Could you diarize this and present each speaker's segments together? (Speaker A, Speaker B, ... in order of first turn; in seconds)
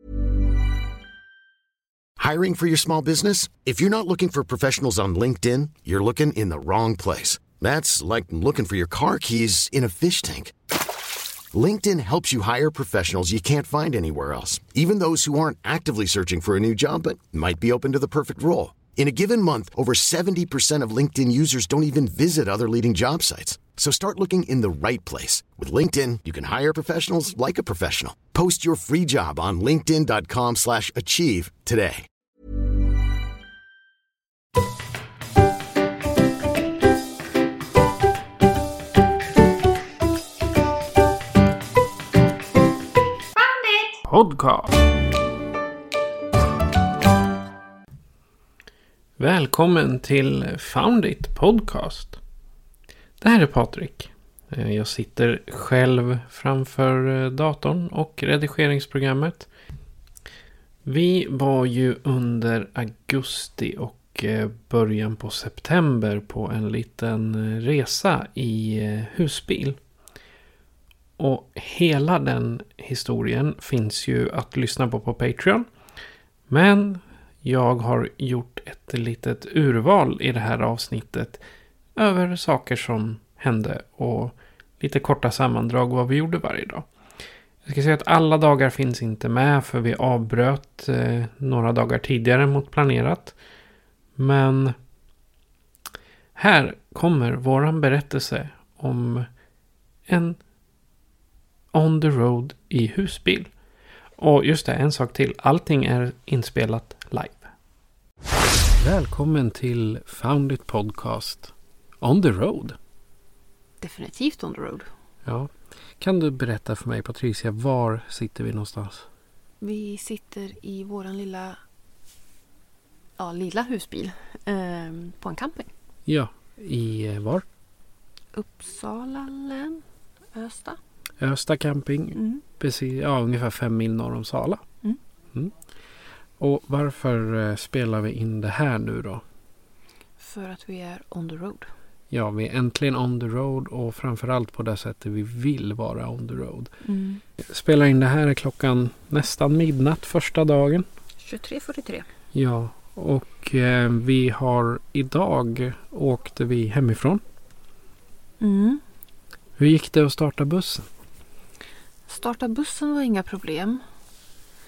Speaker A: 2.2-10.5, 11.5-32.1
Speaker B: 44.1-44.8, 49.2-52.2, 53.2-59.5, 60.9-69.8, 71.2-75.7, 76.5-81.4, 82.0-86.9, 87.7-93.4, 94.2-94.8, 96.4-99.3, 100.1-100.4, 101.7-103.5, 104.2-107.5, 108.8-112.8, 115.3-119.1, 126.1-127.5, 131.2-134.6, 136.4-139.2, 142.1-146.7, 147.4-150.9, 152.3-157.2, 159.6-160.9
Speaker C: 113.8-114.9, 119.6-121.6, 123.2-125.7, 128.3-129.8, 130.3-130.8, 132.2-132.4, 140.2-141.7, 146.8-147.2, 151.2-152.1, 158.4-158.8, 162.1-163.8